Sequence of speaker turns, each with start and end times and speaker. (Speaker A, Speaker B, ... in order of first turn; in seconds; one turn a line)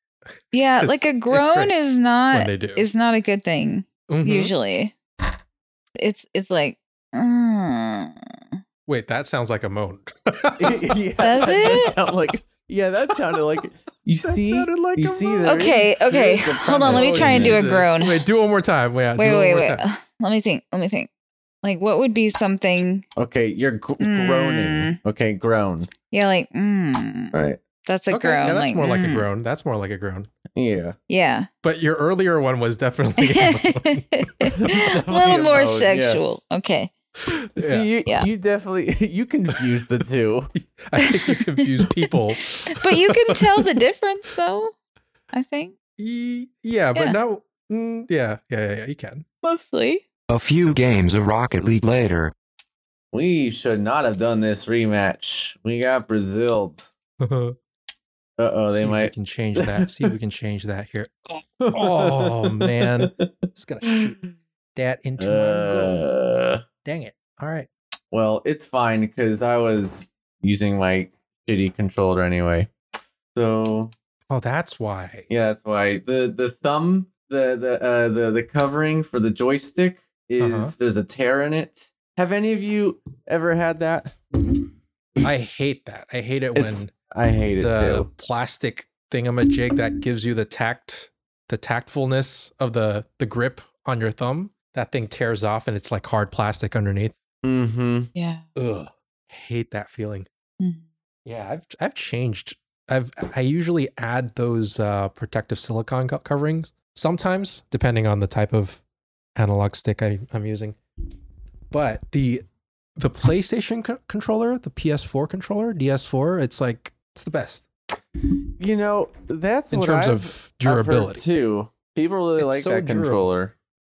Speaker A: 0.5-4.9
Speaker B: 0.8-1.7
Speaker B: 2.3-2.9
Speaker B: 4.1-4.5
Speaker A: 6.0-8.1
Speaker B: 8.9-10.9
Speaker C: 10.6-17.8
Speaker A: 11.2-11.9
Speaker B: 14.2-19.8
Speaker A: 15.4-18.3
Speaker A: 19.1-21.1
Speaker A: 21.6-23.1
Speaker C: 23.1-25.9
Speaker A: 24.0-25.0
Speaker A: 26.1-29.3
Speaker C: 27.3-27.6
Speaker B: 28.1-30.3
Speaker C: 30.5-31.0
Speaker A: 31.1-31.5
Speaker B: 31.6-34.6
Speaker A: 33.2-36.9
Speaker C: 34.6-36.2
Speaker B: 37.3-37.9
Speaker C: 37.6-40.5
Speaker B: 40.5-43.4
Speaker A: 42.7-44.7
Speaker A: 45.3-45.7
Speaker B: 46.0-49.2
Speaker A: 49.4-50.0
Speaker D: 50.3-52.3
Speaker C: 53.1-56.9
Speaker B: 57.2-57.5
Speaker C: 58.4-60.1
Speaker B: 58.7-61.1
Speaker C: 61.6-63.3
Speaker B: 61.7-64.2
Speaker C: 63.8-64.1
Speaker B: 64.8-66.0
Speaker C: 65.2-66.6
Speaker B: 66.8-67.7
Speaker C: 68.1-72.7
Speaker C: 73.3-73.9
Speaker B: 74.3-75.3
Speaker C: 75.3-84.2
Speaker B: 80.4-80.7
Speaker B: 85.2-86.9
Speaker C: 86.5-88.1
Speaker B: 87.6-97.2
Speaker C: 97.4-98.1
Speaker A: 98.1-98.4
Speaker B: 98.5-100.3
Speaker B: 101.2-108.8
Speaker B: 109.3-110.8
Speaker B: 111.7-112.4
Speaker B: 113.0-117.7
Speaker C: 118.6-123.5
Speaker B: 119.7-121.2
Speaker B: 122.4-123.3